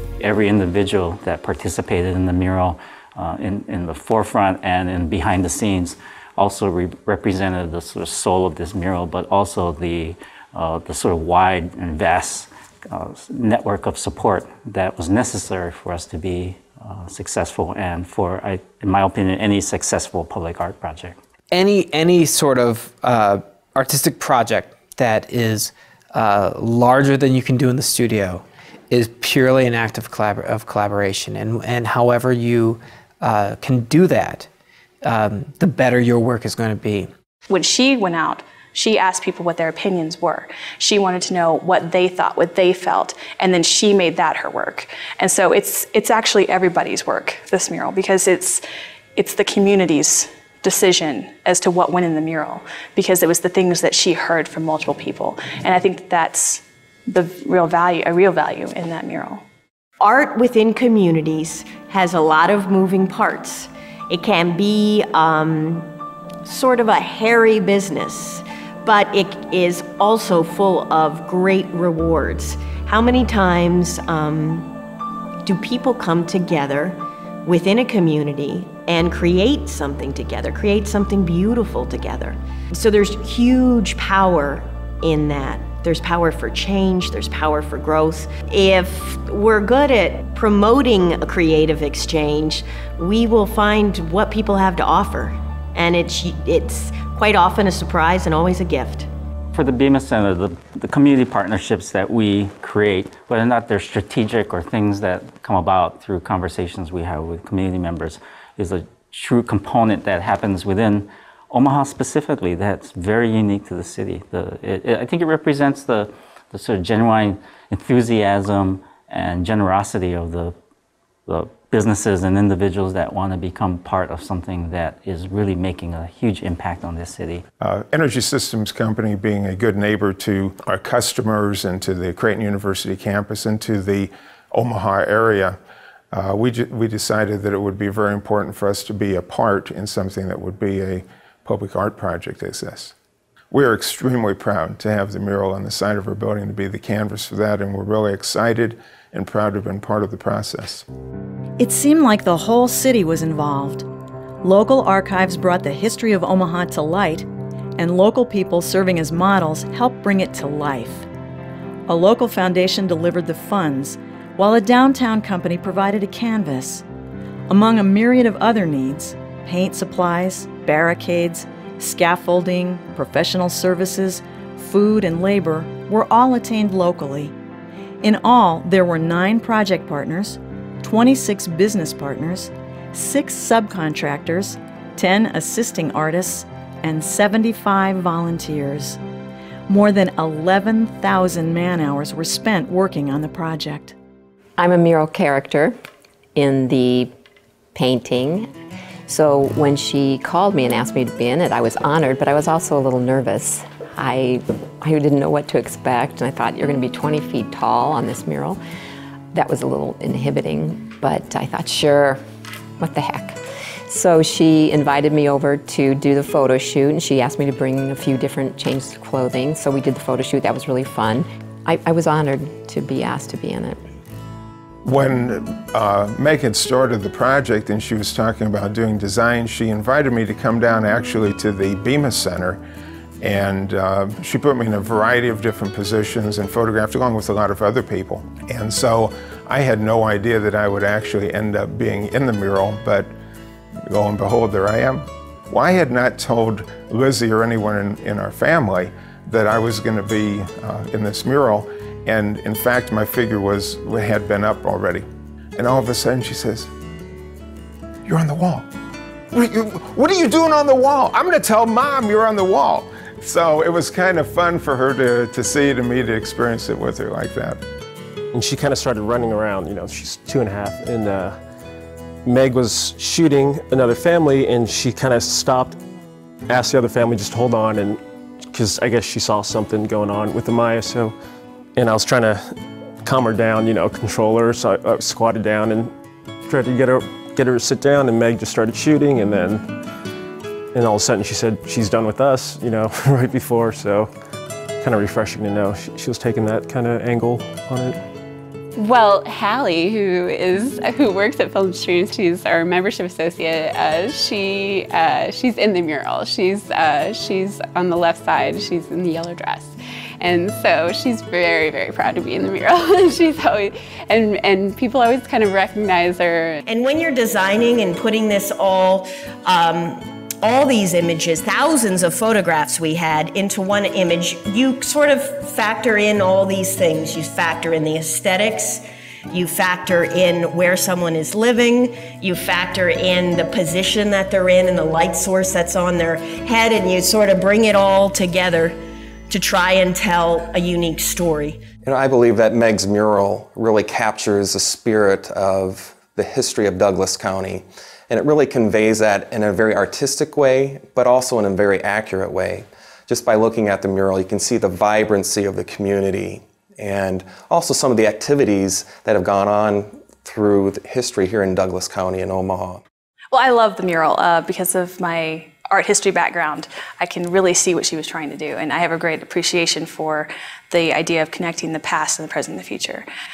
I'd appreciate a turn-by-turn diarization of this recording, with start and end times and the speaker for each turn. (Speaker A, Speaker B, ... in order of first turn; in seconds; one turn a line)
Speaker A: 0.2-21.2
Speaker B: 21.5-34.5
Speaker B: 35.0-37.1
Speaker C: 37.5-48.6
Speaker C: 49.2-59.4
Speaker D: 60.0-65.9
Speaker D: 66.5-74.7
Speaker D: 75.5-99.1
Speaker A: 99.5-120.5
Speaker A: 121.3-127.4
Speaker E: 127.6-135.6
Speaker E: 136.1-142.9
Speaker E: 143.5-150.8
Speaker F: 151.6-153.9
Speaker F: 154.4-157.3
Speaker F: 157.8-161.1
Speaker F: 161.9-166.8
Speaker F: 167.5-177.3
Speaker F: 178.0-189.0
Speaker F: 189.7-193.9
Speaker G: 194.6-195.8
Speaker G: 196.4-197.1
Speaker G: 197.8-198.5
Speaker G: 199.1-208.6
Speaker G: 209.3-212.2
Speaker G: 212.8-223.8
Speaker E: 224.8-232.6
Speaker E: 233.2-243.1
Speaker E: 243.9-255.1
Speaker E: 255.6-256.7
Speaker E: 258.1-258.7
Speaker E: 259.3-267.6
Speaker H: 268.3-271.4
Speaker H: 272.2-275.8
Speaker H: 276.5-278.0
Speaker H: 278.5-281.2
Speaker H: 281.8-282.4
Speaker H: 283.0-285.9
Speaker H: 286.5-289.7
Speaker H: 290.7-294.1
Speaker H: 294.8-298.0
Speaker I: 298.8-316.6
Speaker D: 316.7-338.8
Speaker D: 339.3-341.6
Speaker J: 341.9-362.8
Speaker C: 363.3-373.1